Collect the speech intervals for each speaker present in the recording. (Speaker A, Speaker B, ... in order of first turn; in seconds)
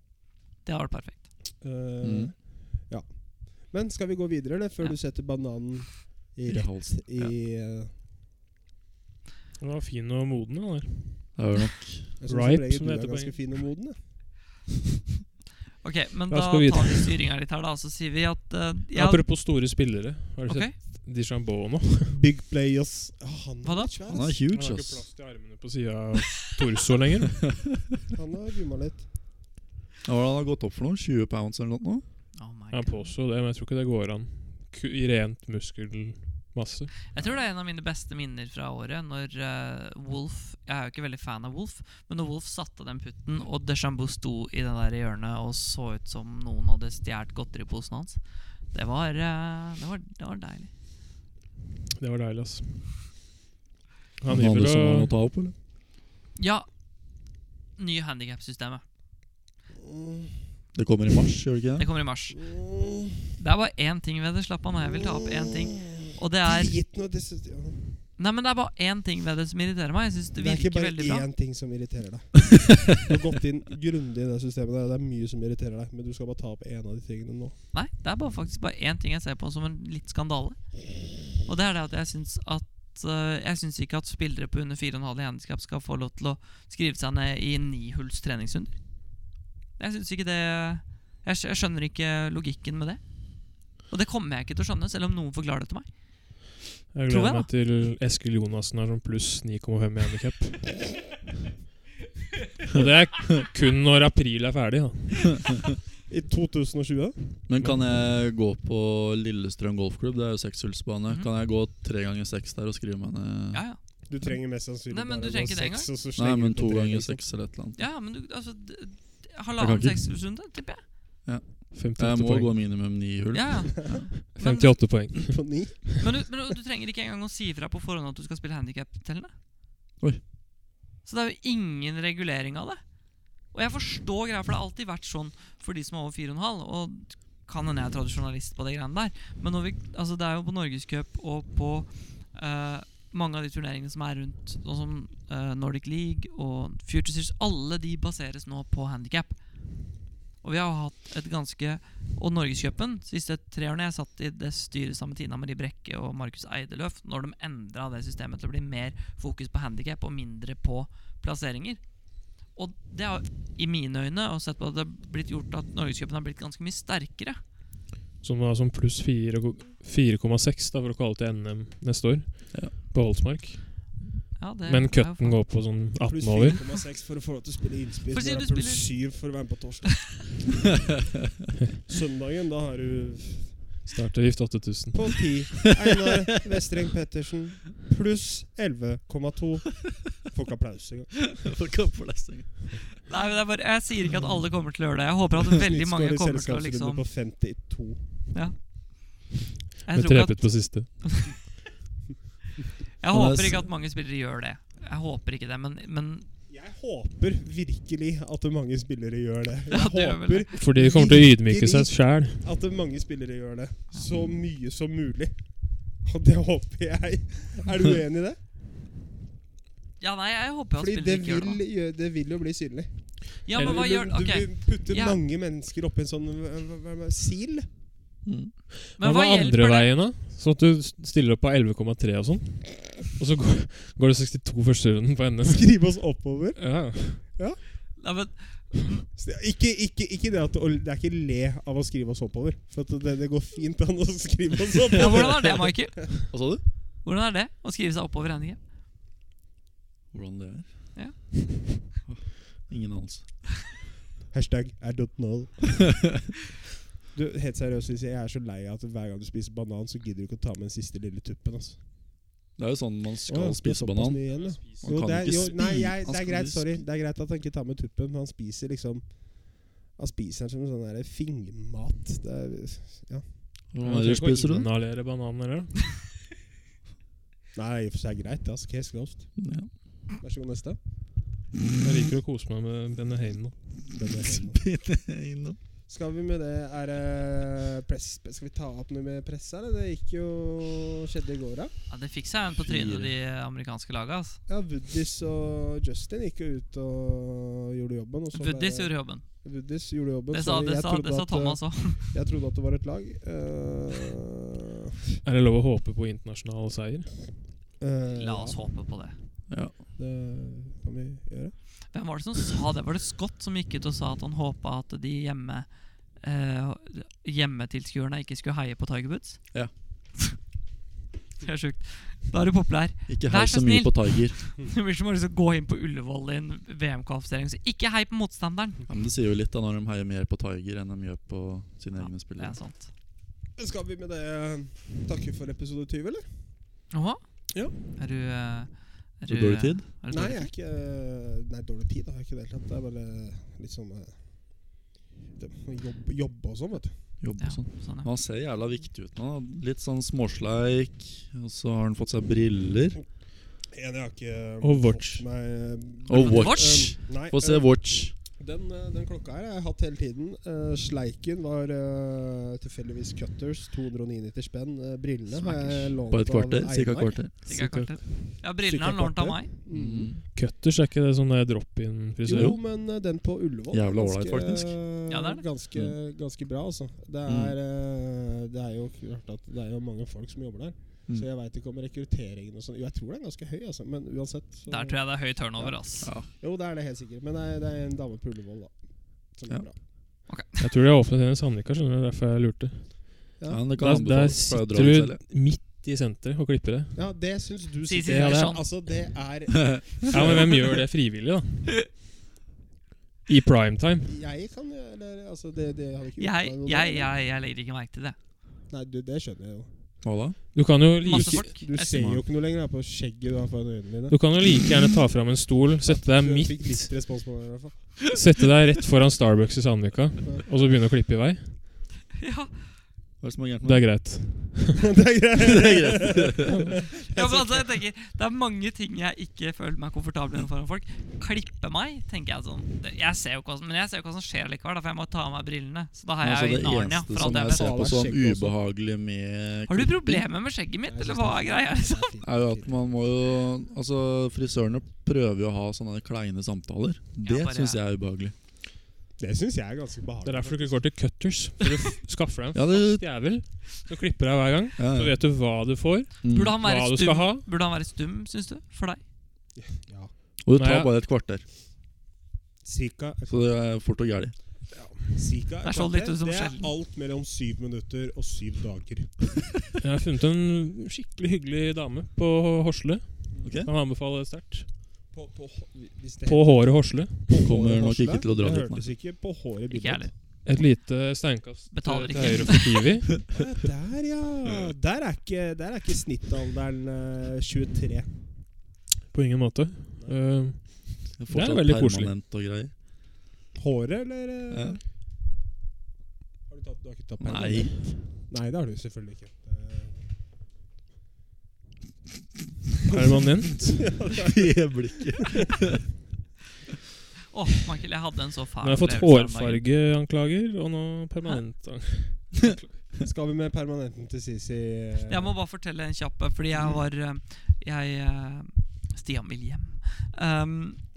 Speaker A: 0.6-1.3, 15.8-19.4, 20.5-20.7, 23.6-23.9, 32.4-33.1, 37.1-50.7, 56.4-56.7, 57.8-58.8, 61.8-62.4, 63.4-66.8, 68.2-71.3, 77.7-89.2, 89.8-97.5, 113.5-113.8, 114.9-115.9, 117.8-120.8, 123.3-125.1, 126.0-129.3, 131.0-132.8, 133.5-149.9, 150.4-167.4, 174.3-175.4, 178.1-178.9, 193.1-197.0, 198.3-198.6, 199.8-201.3, 203.0-206.3, 209.7-210.7, 213.9-214.2, 220.0-221.6, 223.4-225.2, 229.0-229.9, 238.0-239.0, 244.9-248.6, 250.9-251.7, 291.9-294.4, 298.3-299.2, 300.3-302.1, 308.1-309.1, 311.9-319.5, 321.4-328.8, 331.9-332.9, 336.9-340.5, 347.4-348.1, 356.1-356.9, 365.3-365.9, 367.4-369.5, 375.1-375.4, 384.7-386.1, 390.3-390.6, 397.9-398.7, 406.2-408.1, 411.0-412.2, 422.2-422.5, 427.1-437.9, 439.7-442.1, 447.2-447.8, 456.3-459.0, 465.6-466.7, 479.7-480.1, 481.7-482.8, 507.3-509.6, 515.1-520.8
Speaker B: 1.6-7.9, 12.2-14.3, 22.1-24.4, 28.1-29.0, 59.8-60.4, 62.3-63.2, 64.8-68.0, 70.3-77.6, 106.1-107.4, 114.1-117.3, 125.1-126.1, 175.9-180.5, 181.8-183.6, 184.9-191.3, 195.5-198.0, 206.5-218.4, 220.8-227.7, 235.4-237.6, 239.1-246.0, 254.3-256.1, 257.1-261.8, 263.3-273.2, 277.5-279.5, 280.2-280.8, 283.9-284.6, 285.9-291.7, 294.5-304.5, 307.8-308.6, 309.9-312.1, 333.5-336.2, 340.1-347.1, 353.7-367.1, 368.6-370.1, 372.2-389.8, 396.9-400.6, 404.1-407.1, 408.7-409.7, 411.1-414.2, 415.8-418.1, 424.8-427.7, 437.1-438.5, 440.9-442.8, 449.2-450.8, 459.6-460.1, 462.6-463.5, 464.7-469.3, 475.1-480.1, 483.3-488.1, 493.6-494.8, 496.5-500.0, 503.8-505.0, 513.0-515.3
Speaker C: 2.0-2.3, 6.5-7.3, 11.3-12.1, 24.1-25.1, 30.0-32.0, 54.3-55.5, 60.7-61.9, 107.5-113.7, 116.1-117.8, 119.6-120.1, 121.2-124.1, 191.3-192.8, 203.1-203.7, 228.2-228.5, 246.3-246.6, 250.1-251.3, 252.1-253.6, 262.5-266.8, 273.7-274.7, 279.4-279.7, 284.1-285.6, 292.6-293.1, 309.5-309.7, 323.1-324.4, 328.9-332.6, 339.3-339.9, 347.2-353.0, 356.1-358.1, 366.1-367.3, 369.7-370.2, 372.3-372.6, 373.7-374.8, 377.2-377.5, 393.5-395.2, 399.7-400.3, 410.0-410.4, 423.2-424.1, 425.4-426.6, 436.2-440.2, 442.2-448.3, 452.5-453.0, 454.8-455.2, 456.2-456.6, 460.4-461.4, 463.3-464.4, 473.4-473.7, 477.4-478.9, 491.2-492.7, 494.5-494.8, 497.2-498.0, 504.2-505.8
Speaker D: 9.6-11.4, 12.2-13.4, 16.3-17.1, 18.9-22.2, 24.5-27.5, 32.7-36.9, 52.0-52.9, 54.2-55.1, 96.9-101.0, 102.7-105.5, 107.6-108.0, 121.7-122.5, 124.3-125.5, 168.2-174.0, 174.7-176.6, 183.8-185.5, 199.9-200.9, 210.5-212.4, 223.6-223.8, 228.9-235.7, 236.6-237.2, 264.3-265.0, 273.8-275.8, 281.8-283.5, 305.2-307.3, 354.6-355.2, 367.5-368.0, 370.3-372.6, 390.6-397.0, 398.0-398.6, 400.1-401.8, 403.3-404.1, 410.5-411.5, 414.1-416.9, 418.1-421.6, 423.6-424.8, 450.2-457.4, 460.5-460.9, 469.8-474.7, 476.2-477.4, 480.4-483.3, 489.1-492.1, 502.9-503.8, 508.6-512.8